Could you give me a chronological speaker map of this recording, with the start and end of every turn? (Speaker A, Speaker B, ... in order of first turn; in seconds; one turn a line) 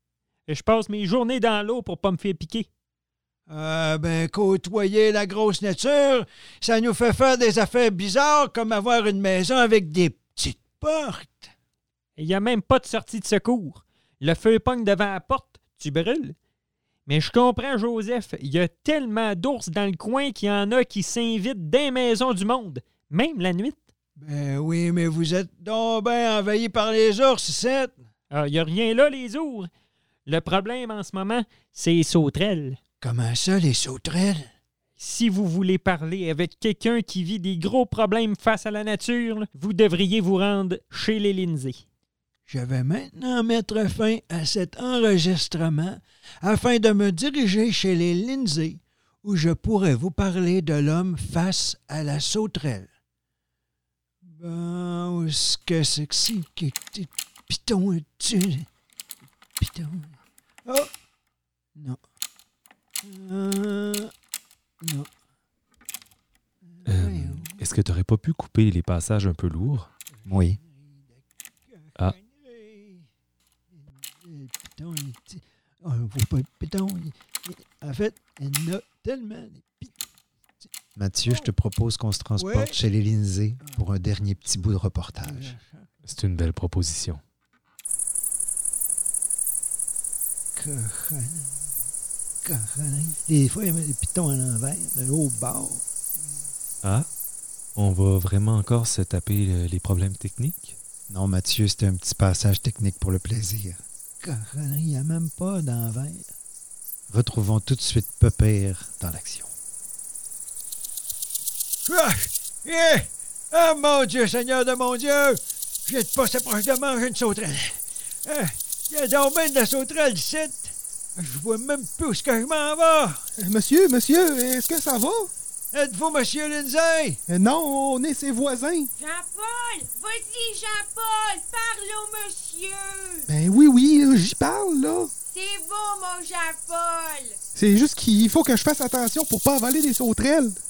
Speaker A: 0.5-2.7
Speaker B: 3.5-11.5
Speaker A: 12.2-16.4
Speaker A: 17.1-23.9
Speaker B: 24.2-28.0
Speaker A: 28.3-29.7
Speaker A: 30.3-32.8
Speaker B: 33.0-34.5
Speaker A: 35.0-41.8
Speaker B: 42.5-52.9
Speaker B: 54.2-58.7
Speaker B: 59.6-60.9
Speaker B: 63.0-64.1
Speaker B: 64.8-65.1
Speaker B: 66.7-67.6
Speaker C: 66.9-69.9
Speaker D: 70.3-70.6
Speaker B: 70.7-73.1
Speaker B: 73.8-80.0
Speaker D: 81.0-85.6
Speaker B: 82.4-82.8
Speaker B: 85.2-85.9
Speaker C: 86.1-87.2
Speaker B: 90.5-91.7
Speaker B: 92.4-95.8
Speaker C: 97.8-100.8
Speaker D: 101.1-103.8
Speaker B: 104.2-106.3
Speaker D: 107.1-109.5
Speaker B: 111.9-123.2
Speaker E: 123.4-125.3
Speaker B: 125.7-127.2
Speaker E: 127.3-128.9
Speaker F: 129.0-133.3
Speaker E: 133.3-135.1
Speaker F: 135.3-137.4
Speaker E: 137.6-140.6